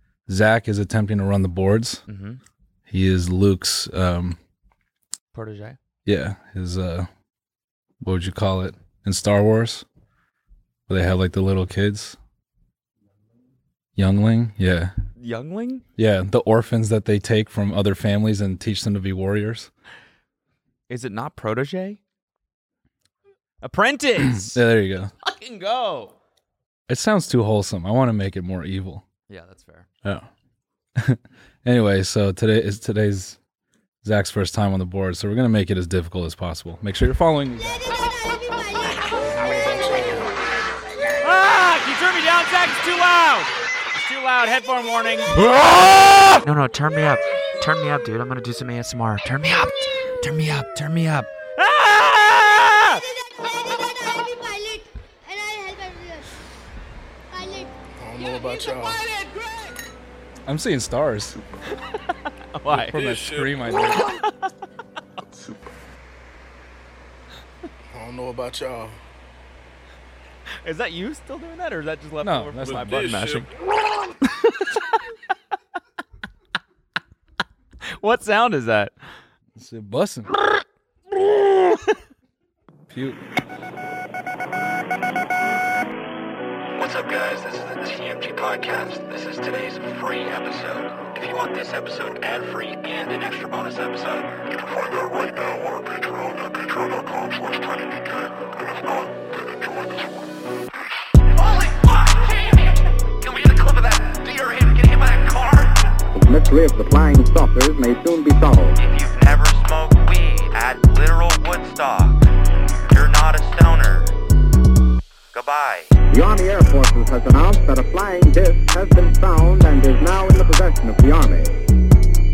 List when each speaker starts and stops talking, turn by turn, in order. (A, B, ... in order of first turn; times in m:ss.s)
0:00.3-0:02.0 A
0:02.1-0:02.4 B
0:02.9-0:04.4 A
0:05.3-0:05.8 B
0:06.0-0:07.1 A
0:08.0-0:09.8 A
0:10.9-0:12.2 A
0:14.0-0:14.9 A
0:15.2-0:15.8 B
0:16.0-0:19.7 A
0:20.9-0:22.0 B
0:23.6-0:24.6 B
0:24.3-0:25.1 A
0:25.2-0:26.1 B
0:26.9-0:29.0 A
0:29.3-0:29.9 B
0:31.0-0:33.4 A
0:34.0-0:38.0 A
0:39.1-0:40.4 C
0:41.2-0:53.0 B
0:57.6-0:59.1 C
1:00.5-1:01.4 A
1:01.9-1:03.1 B
1:02.7-1:04.1 A
1:03.9-1:04.5 B
1:07.9-1:09.0 C
1:10.6-1:13.5 B
1:12.2-1:13.2 A
1:14.2-1:15.3 B
1:17.8-1:18.9 B
1:19.6-1:20.3 A
1:21.1-1:21.9 B
1:22.9-1:23.2 A
1:26.8-1:40.5 D
1:41.1-1:46.0 D
1:46.1-1:48.8 E
1:48.9-1:52.1 D
1:52.9-1:54.0 D
1:55.4-1:55.8 D
1:56.1-2:01.6 E